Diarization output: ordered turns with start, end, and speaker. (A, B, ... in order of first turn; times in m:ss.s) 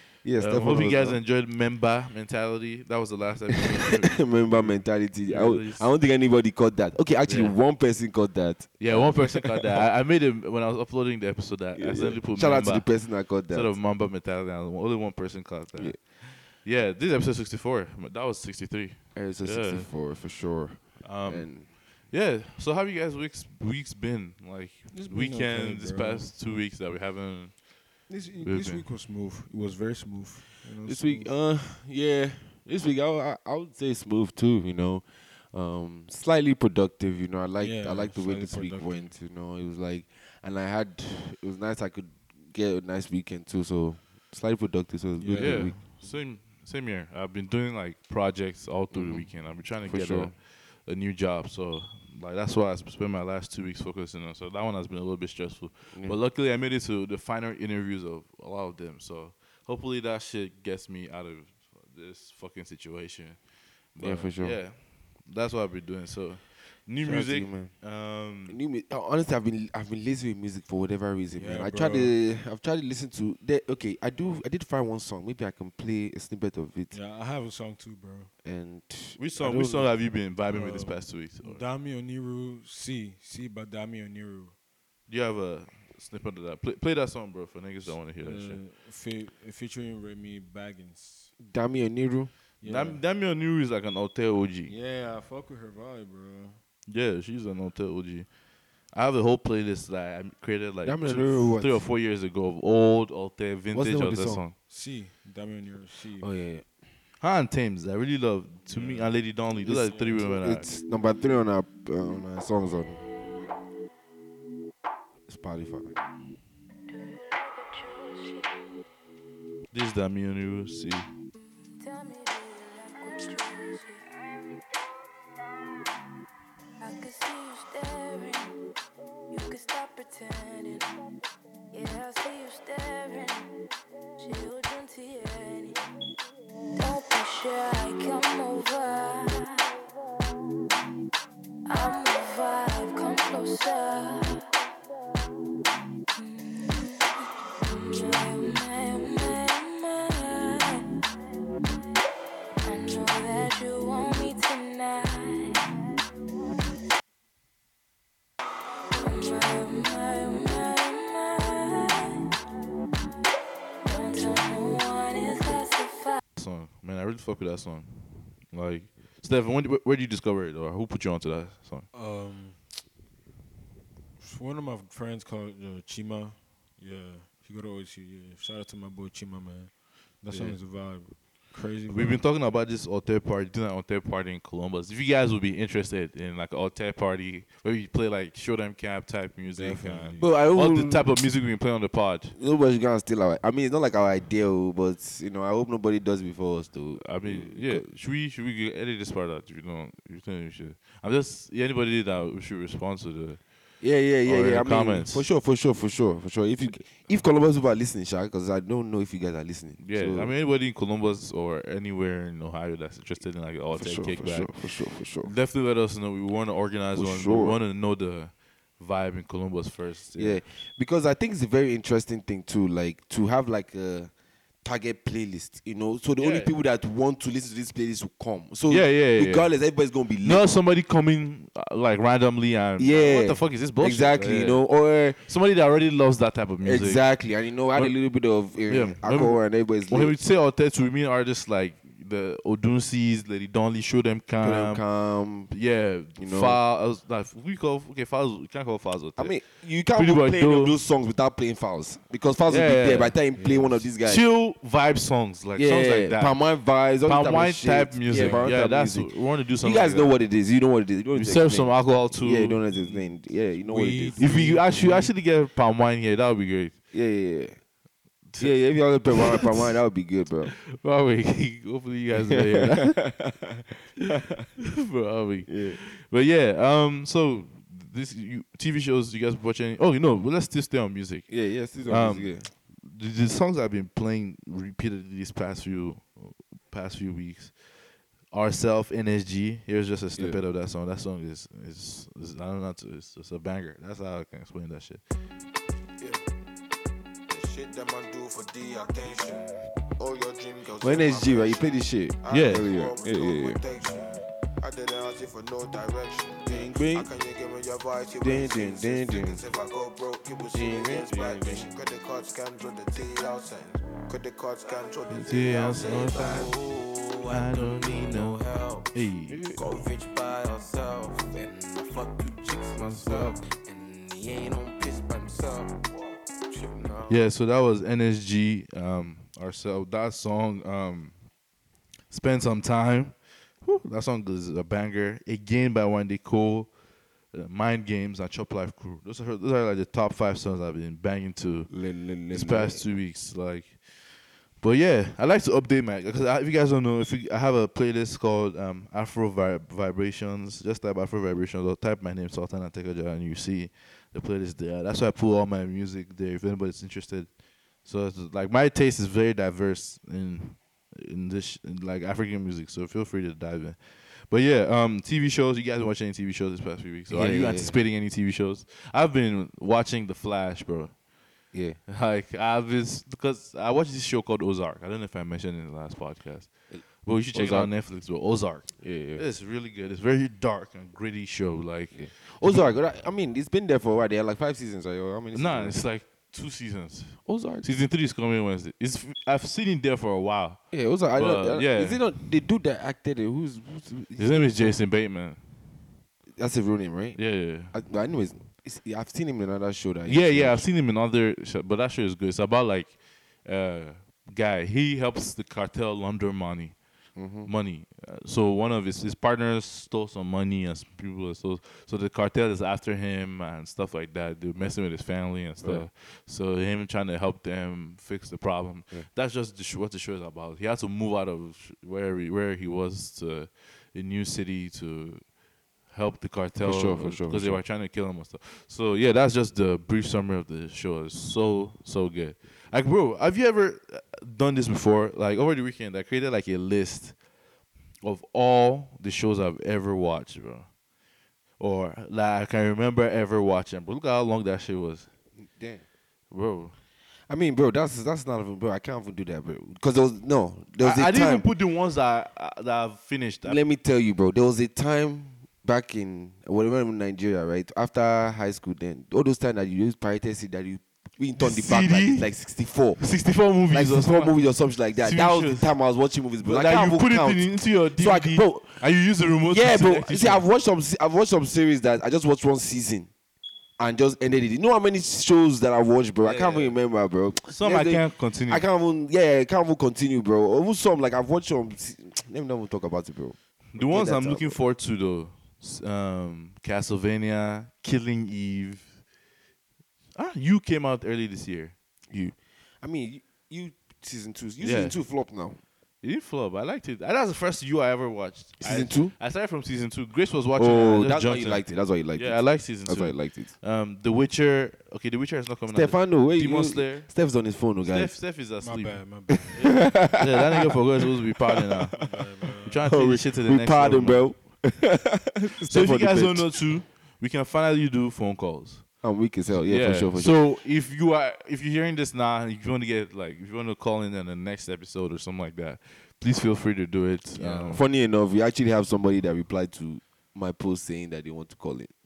0:00.2-0:01.2 A
0:00.4-0:05.9 B
0:04.1-0:09.5 A
0:07.2-0:07.6 B
0:08.8-0:19.9 B
0:11.8-0:13.8 A
0:19.1-0:21.7 A
0:21.0-0:28.8 B
0:24.9-0:26.3 C
0:28.1-0:31.3 C
0:30.8-0:45.8 A
0:37.6-0:39.1 C
0:45.2-0:45.9 C
0:45.3-1:03.4 B
0:48.9-0:50.3 A
1:03.9-1:08.6 B
1:04.0-1:04.6 A
1:07.0-1:07.7 A
1:08.4-1:16.9 A
1:11.3-1:12.1 C
1:16.9-1:18.3 C
1:18.4-1:19.9 A
1:19.2-1:21.6 B
1:20.5-1:24.5 C
1:25.1-1:28.6 B
1:28.0-1:31.3 C
1:31.4-1:32.3 A
1:32.6-1:33.0 C
1:32.6-1:34.7 B
1:34.7-1:36.6 C
1:36.9-1:38.3 B
1:38.9-1:44.6 B
1:40.8-1:41.9 A
1:43.7-1:44.4 A
1:44.7-1:46.3 C
1:46.2-1:46.6 A
1:47.2-1:50.7 B
1:48.7-1:50.2 C
1:49.6-1:53.0 A
1:55.3-1:55.9 A
1:56.9-1:58.6 D
1:59.7-2:01.1 B
2:01.8-2:04.6 D
2:06.8-2:08.5 D
2:09.3-2:10.9 D
2:11.7-2:13.5 D
2:14.2-2:15.8 D
2:16.8-2:19.8 D
2:21.7-2:24.6 D
2:26.1-2:30.9 D
2:32.6-2:35.7 D
2:38.9-2:42.3 D
2:43.8-2:46.2 D
2:46.3-2:51.9 B
2:51.9-2:52.7 C
2:54.2-3:02.2 C
3:00.3-3:00.6 B
3:01.9-3:12.3 B
3:09.5-3:10.3 C
3:10.2-3:11.1 A
3:12.4-3:17.8 A
3:17.0-3:23.4 B
3:23.8-3:30.3 A
3:24.2-3:25.2 B
3:29.8-3:34.6 B
3:33.7-3:35.3 A
3:35.1-3:40.4 B
3:36.9-3:37.6 A
3:40.2-3:44.1 A
3:44.6-3:50.4 A
3:46.2-3:46.5 B
3:48.7-3:49.5 B
3:50.2-3:57.1 B
3:52.8-3:55.2 A
3:56.6-4:00.1 A
3:58.7-4:04.8 B
4:04.4-4:05.5 A
4:05.5-4:10.8 B
4:06.2-4:06.6 A
4:09.2-4:14.2 A
4:12.5-4:13.2 B
4:13.4-4:13.8 C
4:14.0-4:20.1 B
4:15.6-4:24.3 A
4:18.1-4:18.4 C
4:21.1-4:22.6 B
4:22.7-4:25.1 C
4:24.2-4:26.7 B
4:26.9-4:27.6 A
4:28.4-4:30.6 A
4:29.1-4:29.7 B
4:30.6-4:33.2 B
4:32.2-4:33.6 A
4:34.6-4:47.5 B
4:35.5-4:35.8 A
4:41.3-4:42.5 A
4:48.3-4:55.0 B
4:50.2-4:50.4 A
4:57.3-4:59.4 E
5:00.0-5:27.2 E
5:00.8-5:03.6 A
5:02.3-5:02.7 B
5:06.5-5:07.1 A
5:08.2-5:09.4 A
5:10.5-5:11.6 A
5:15.1-5:16.6 B
5:17.3-5:19.6 B
5:22.8-5:23.3 B
5:27.1-5:31.1 B
5:32.1-5:36.7 B
5:37.3-5:41.7 B
5:41.7-5:42.8 A
5:42.3-5:57.3 B
5:57.8-6:11.0 B
6:07.1-6:07.8 A
6:11.5-6:11.8 A
6:11.9-6:22.7 B
6:16.7-6:17.7 A
6:18.8-6:19.2 A
6:21.9-6:25.8 A
6:25.3-6:32.1 B
6:27.2-6:27.7 A
6:30.7-6:34.7 A
6:34.2-6:35.4 B
6:36.3-6:37.2 A
6:37.2-6:37.7 B
6:37.7-6:40.6 A
6:40.0-6:46.8 B
6:47.2-6:47.5 A
6:47.4-7:05.2 B
7:05.9-7:17.2 B
7:06.6-7:07.6 A
7:18.0-7:20.7 B
7:21.6-7:25.1 B
7:25.4-7:25.8 A
7:26.3-7:26.8 B
7:27.3-7:31.5 A
7:30.8-7:33.6 B
7:33.4-7:43.0 A
7:41.4-7:42.3 B
7:43.0-7:44.3 B
7:43.7-7:48.8 A
7:45.0-7:45.7 B
7:46.4-7:50.4 B
7:49.5-7:53.1 A
7:53.8-8:04.6 A
7:56.2-7:56.7 B
7:57.4-7:58.6 B
8:03.7-8:09.0 B
8:10.1-8:11.7 B
8:12.1-8:15.6 A
8:14.6-8:15.0 B
8:16.0-8:27.1 B
8:18.6-8:19.1 A
8:20.6-8:23.5 A
8:25.7-8:28.1 A
8:27.8-8:34.3 B
8:28.6-8:29.9 C
8:29.3-8:30.7 A
8:32.0-8:32.9 C
8:32.8-8:36.5 A
8:35.6-8:38.9 B
8:39.0-8:40.4 A
8:39.5-8:47.8 B
8:47.4-8:51.9 A